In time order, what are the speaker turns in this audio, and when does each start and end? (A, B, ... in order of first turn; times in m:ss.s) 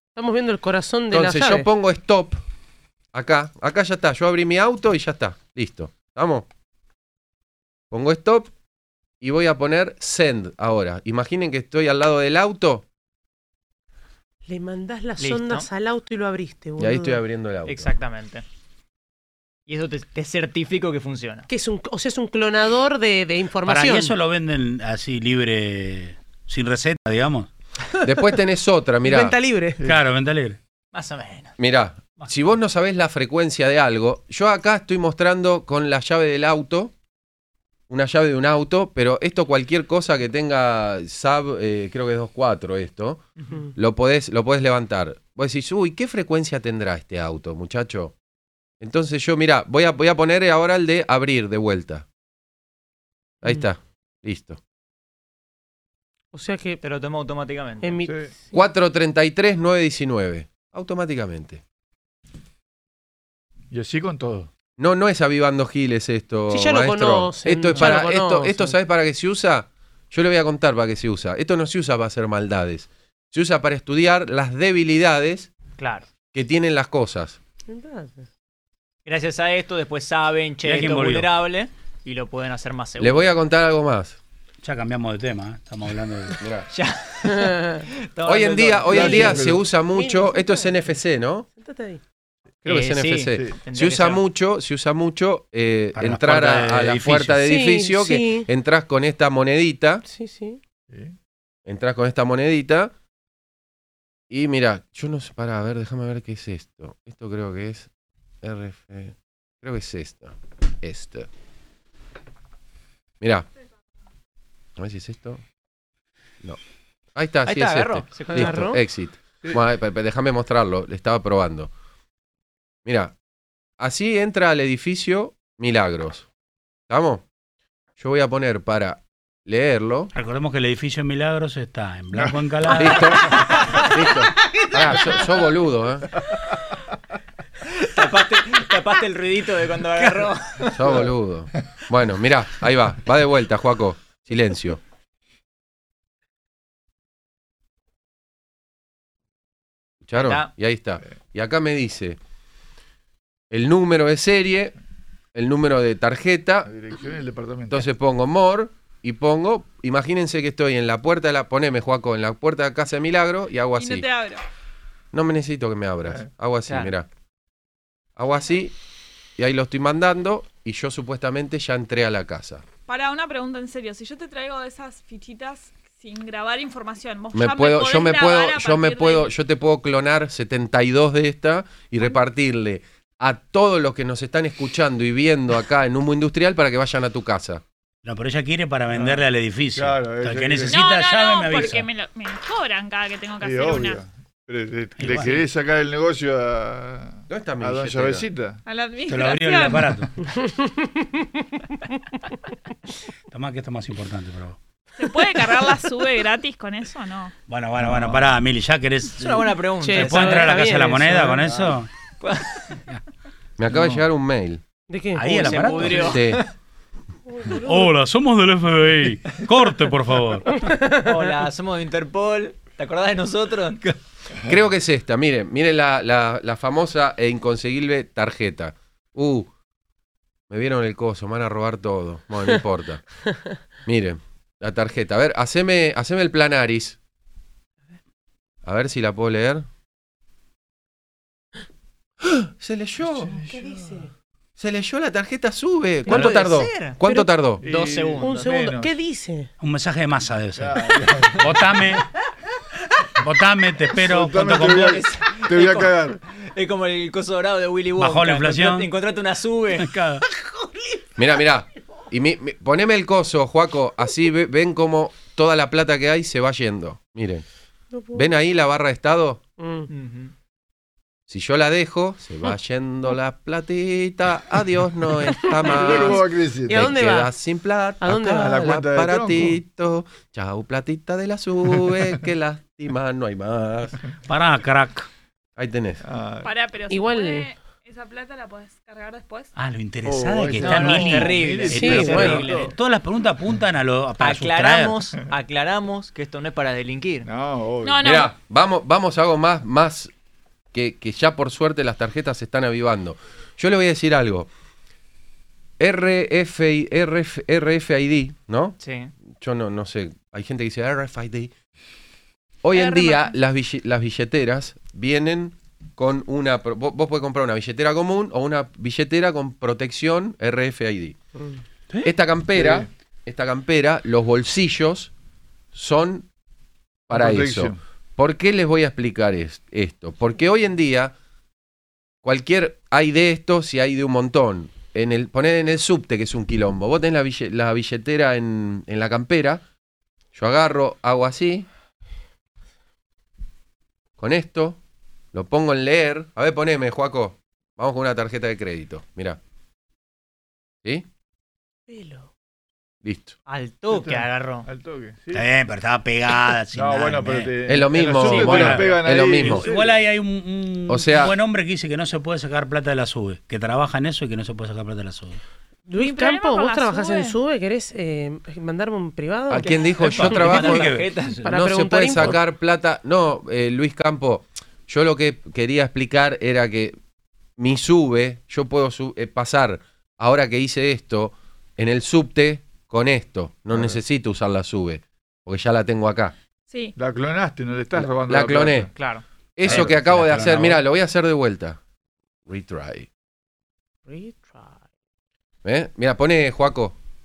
0:00.2-0:01.7 A
0:01.1-0:02.4 B
0:03.1-0:06.5 B
0:07.9-0:08.5 B
0:09.2-0:12.8 B
0:14.4-0:17.2 A
0:15.2-0:15.7 C
0:16.8-0:17.9 B
0:17.6-0:18.4 C
0:19.7-0:21.5 C
0:21.5-0:24.1 A
0:23.6-0:27.5 D
0:28.0-0:29.3 B
0:29.0-0:29.8 A
0:29.8-0:30.6 D
0:30.9-0:31.6 C
0:31.6-0:36.9 B
0:37.9-0:48.1 B
0:48.8-0:52.0 B
0:53.4-0:54.6 B
0:56.3-0:56.8 A
0:56.8-0:58.0 C
0:57.8-0:58.6 A
0:58.0-0:58.3 E
0:58.5-1:01.6 B
1:03.7-1:04.5 E
1:04.8-1:15.5 B
1:06.5-1:08.8 A
1:15.8-1:16.1 C
1:16.3-1:17.4 B
1:17.7-1:18.2 A
1:19.0-1:23.3 C
1:20.6-1:21.3 D
1:23.0-1:24.2 B
1:24.6-1:26.4 D
1:26.4-1:26.7 B
1:26.7-1:29.4 C
1:27.2-1:27.8 A
1:28.2-1:31.5 B
1:28.9-1:30.8 A
1:28.9-1:29.6 E
1:31.5-1:32.0 A
1:32.6-1:40.0 B
1:32.6-1:34.2 C
1:35.9-1:37.4 D
1:37.4-1:38.5 A
1:40.0-1:40.6 A
1:40.9-1:41.1 E
1:41.6-1:42.9 B
1:44.3-1:47.9 B
1:48.4-1:51.3 B
1:53.2-1:53.5 B
1:54.8-1:55.4 B
1:57.1-2:01.7 B
1:57.4-1:58.7 C
1:58.2-1:58.8 A
2:02.8-2:03.1 B
2:03.8-2:06.3 B
2:06.9-2:07.2 B
2:08.0-2:10.1 B
2:10.1-2:13.4 D
2:12.7-2:16.1 B
2:13.6-2:13.9 C
2:17.8-2:20.8 C
2:20.7-2:24.8 B
2:30.0-2:32.2 B
2:30.1-2:30.5 C
2:33.5-2:34.7 B
2:35.3-2:36.7 B
2:36.6-2:37.9 E
2:37.7-2:44.1 B
2:43.8-2:44.4 F
2:45.1-2:47.1 B
2:46.6-2:46.9 C
2:48.2-2:48.7 B
2:49.4-2:52.6 B
2:52.9-2:59.3 F
2:57.3-3:07.6 B
3:08.0-3:11.9 D
3:08.9-3:10.8 E
3:10.7-3:14.0 F
3:13.4-3:18.6 E
3:15.0-3:15.4 D
3:17.3-3:18.2 B
3:18.6-3:20.0 F
3:19.1-3:20.1 D
3:20.2-3:21.4 A
3:23.3-3:24.6 D
3:25.0-3:27.3 F
3:27.5-3:31.9 D
3:27.8-3:28.3 E
3:29.2-3:31.2 C
3:29.8-3:31.5 A
3:32.2-3:32.8 C
3:33.6-3:34.6 B
3:34.9-3:35.8 A
3:35.2-3:36.3 D
3:35.3-3:36.4 C
3:35.9-3:36.4 B
3:37.3-3:37.9 A
3:37.5-3:40.5 D
3:40.5-3:41.1 A
3:41.0-3:43.8 C
3:44.4-3:49.5 B
3:50.5-3:53.0 B
3:53.8-3:57.0 B
3:58.6-3:59.6 B
4:02.2-4:03.4 B
4:03.0-4:03.9 E
4:03.5-4:04.1 A
4:04.6-4:07.6 B
4:06.1-4:06.4 A
4:06.1-4:08.5 C
4:07.6-4:08.9 E
4:08.2-4:09.5 A
4:09.6-4:10.8 D
4:10.6-4:11.8 E
4:11.4-4:12.0 D
4:13.2-4:15.0 D
4:14.0-4:16.2 E
4:14.7-4:19.9 C
4:18.0-4:18.9 D
4:19.8-4:20.2 D
4:20.4-4:20.7 A
4:21.2-4:27.4 B
4:27.9-4:28.3 A
4:28.1-4:29.4 B
4:29.6-4:29.9 A
4:29.9-4:30.3 C
4:31.3-4:44.0 B
4:35.4-4:37.3 A
4:35.6-4:36.9 E
4:38.0-4:38.5 A
4:38.1-4:39.6 E
4:44.3-4:45.1 D
4:45.6-4:46.0 B
4:46.0-4:46.5 E
4:46.4-4:49.5 F
4:46.9-4:47.5 A
4:49.6-4:55.1 D
4:50.0-4:52.7 E
4:50.6-4:52.7 C
4:51.7-4:52.4 A
4:54.2-4:57.3 C
4:57.2-4:58.1 E
4:57.8-4:58.3 F
4:58.0-5:00.1 B
5:00.7-5:04.5 B
5:05.8-5:08.8 B
5:08.8-5:09.1 C
5:09.3-5:11.5 B
5:12.6-5:21.2 B
5:12.7-5:13.3 F
5:22.0-5:25.1 B
5:22.5-5:22.9 E
5:25.7-5:26.3 B
5:27.1-5:31.1 B
5:27.1-5:27.8 E
5:32.2-5:39.6 B
5:40.3-5:41.7 B
5:44.2-5:44.8 B
5:45.3-5:49.4 B
5:51.9-5:52.3 A
5:53.0-5:53.4 B
5:53.5-5:54.7 C
5:53.9-5:55.5 E
5:55.3-5:57.6 D
5:56.7-5:59.7 E
5:57.7-5:59.7 B
5:58.2-6:05.4 D
5:58.3-5:58.7 C
6:00.9-6:01.3 B
6:05.9-6:09.8 A
6:05.9-6:07.4 F
6:09.5-6:16.9 B
6:09.6-6:11.4 C
6:10.0-6:11.5 D
6:11.4-6:12.4 A
6:17.6-6:26.3 B
6:23.7-6:24.0 E
6:26.7-6:26.9 F
6:27.0-6:28.9 E
6:28.0-6:28.9 B
6:29.0-6:29.2 C
6:29.6-6:31.8 B
6:29.6-6:30.8 D
6:32.5-6:33.1 B
6:34.1-6:34.8 A
6:35.6-6:37.0 B